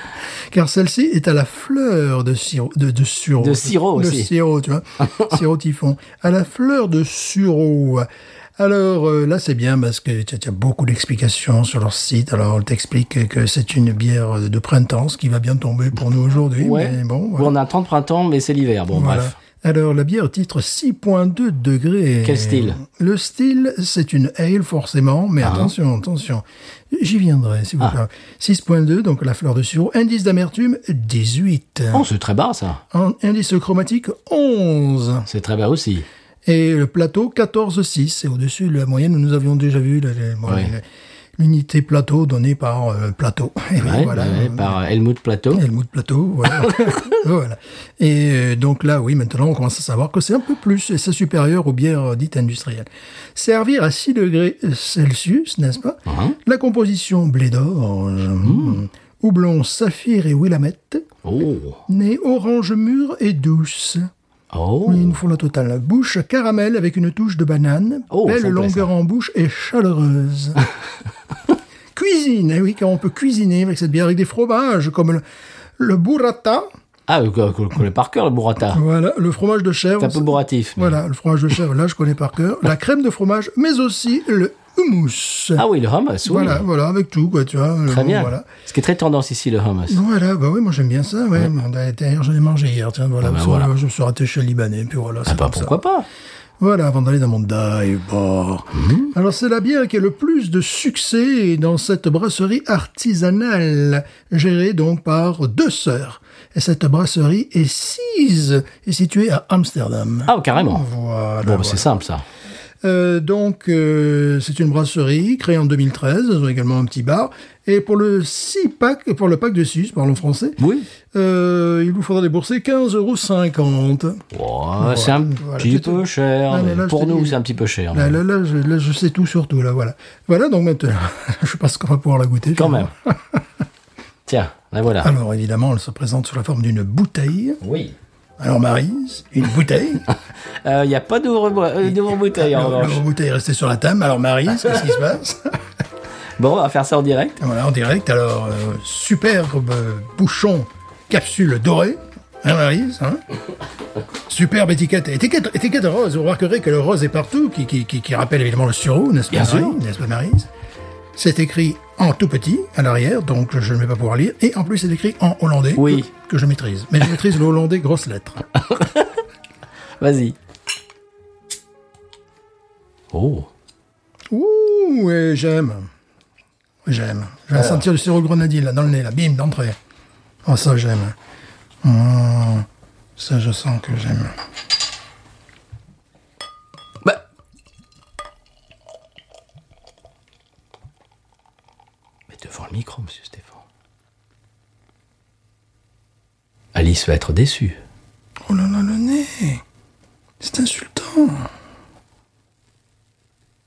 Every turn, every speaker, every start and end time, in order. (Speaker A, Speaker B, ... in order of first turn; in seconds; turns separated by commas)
Speaker A: 0.5-17.5, Speaker B: 3.4-4.3, Speaker B: 16.6-19.4, Speaker A: 18.9-32.1, Speaker B: 22.2-22.8, Speaker B: 25.4-25.7, Speaker B: 31.9-32.8, Speaker A: 32.9-35.3, Speaker B: 35.3-36.1, Speaker A: 36.5-40.8, Speaker B: 40.5-40.7, Speaker A: 41.4-44.8, Speaker B: 43.8-45.6, Speaker A: 45.5-61.1, Speaker B: 56.1-56.4, Speaker B: 58.4-58.8, Speaker B: 61.2-61.8, Speaker A: 61.9-64.1, Speaker B: 64.5-65.2, Speaker A: 64.8-70.6, Speaker B: 68.1-68.9, Speaker A: 72.0-75.2, Speaker A: 75.8-76.7, Speaker B: 77.1-78.8, Speaker A: 78.7-85.6, Speaker B: 80.0-81.0, Speaker B: 85.6-86.6, Speaker A: 86.2-88.5, Speaker B: 87.9-90.0, Speaker A: 89.9-95.8, Speaker B: 93.2-93.7, Speaker B: 95.3-96.1, Speaker A: 96.6-111.9, Speaker B: 98.7-99.1, Speaker B: 110.3-110.8, Speaker B: 111.4-112.2, Speaker A: 112.8-120.6, Speaker B: 120.6-120.9, Speaker A: 121.1-124.2, Speaker B: 124.3-128.2, Speaker A: 124.8-127.4, Speaker A: 127.9-133.4, Speaker B: 132.6-132.9, Speaker B: 134.3-135.1, Speaker A: 135.0-137.6, Speaker B: 137.6-137.9, Speaker A: 138.4-140.1, Speaker B: 140.6-143.0, Speaker A: 141.9-145.6, Speaker B: 146.4-147.4, Speaker A: 147.4-153.2, Speaker A: 154.3-160.5, Speaker B: 159.3-159.8, Speaker A: 161.2-168.4, Speaker B: 165.8-166.1, Speaker B: 168.7-169.1, Speaker B: 170.0-170.4, Speaker B: 173.1-173.5, Speaker A: 174.3-175.9, Speaker A: 176.8-179.8, Speaker A: 180.4-181.2, Speaker A: 181.8-184.4, Speaker B: 192.3-193.6, Speaker B: 196.7-197.8, Speaker A: 198.5-199.6, Speaker A: 200.4-201.5